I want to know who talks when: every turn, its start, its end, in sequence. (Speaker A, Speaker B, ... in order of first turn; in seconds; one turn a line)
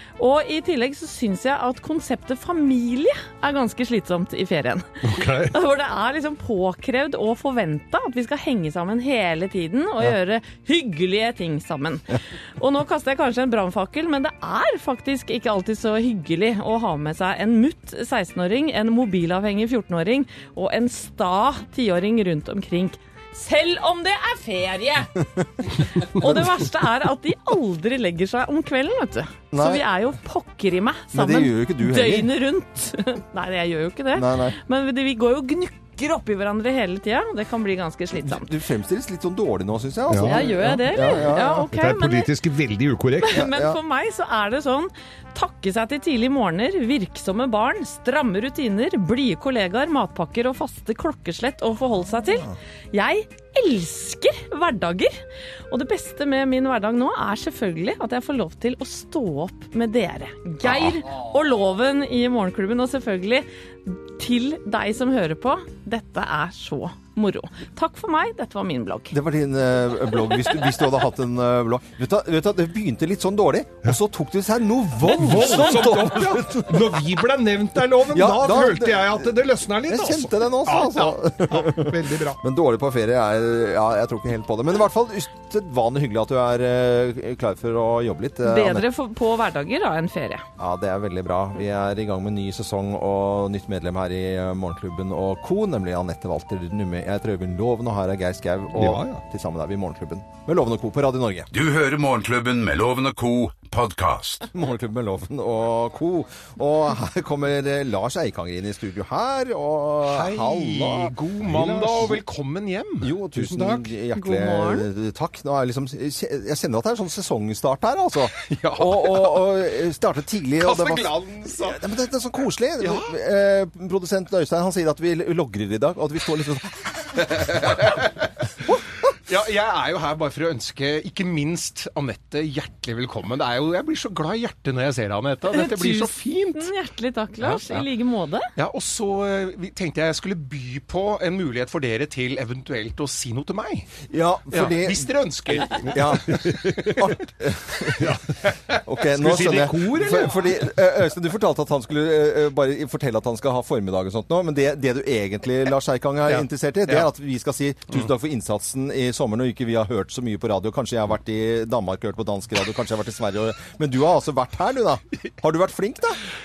Speaker A: 0.2-38.5
Speaker B: 5.0-5.5
Speaker C: 29.5-29.8
Speaker C: 31.1-32.3
Speaker C: 34.1-34.6
Speaker C: 38.1-41.7
Speaker B: 40.1-40.4
Speaker A: 40.2-42.3
Speaker B: 41.7-43.4
Speaker A: 43.2-69.2
Speaker C: 43.3-43.8
Speaker C: 60.6-61.0
Speaker C: 69.1-76.8
Speaker B: 75.0-82.4
Speaker D: 75.5-76.3
Speaker C: 78.1-88.9
Speaker A: 88.4-90.5
Speaker C: 90.6-101.5
Speaker B: 98.7-99.2
Speaker E: 101.5-104.5
Speaker C: 104.5-111.2
Speaker D: 110.0-113.8
Speaker B: 111.5-112.2
Speaker C: 113.0-127.3
Speaker A: 114.1-114.9
Speaker D: 118.4-119.4
Speaker D: 120.6-121.8
Speaker D: 122.8-123.1
Speaker D: 127.3-128.1
Speaker D: 129.3-136.7
Speaker A: 135.5-138.5
Speaker D: 137.4-137.8
Speaker D: 138.5-143.9
Speaker C: 144.1-145.1
Speaker D: 144.5-146.6
Speaker B: 145.8-147.0
Speaker C: 145.9-148.1
Speaker B: 148.0-150.4
Speaker C: 148.8-166.2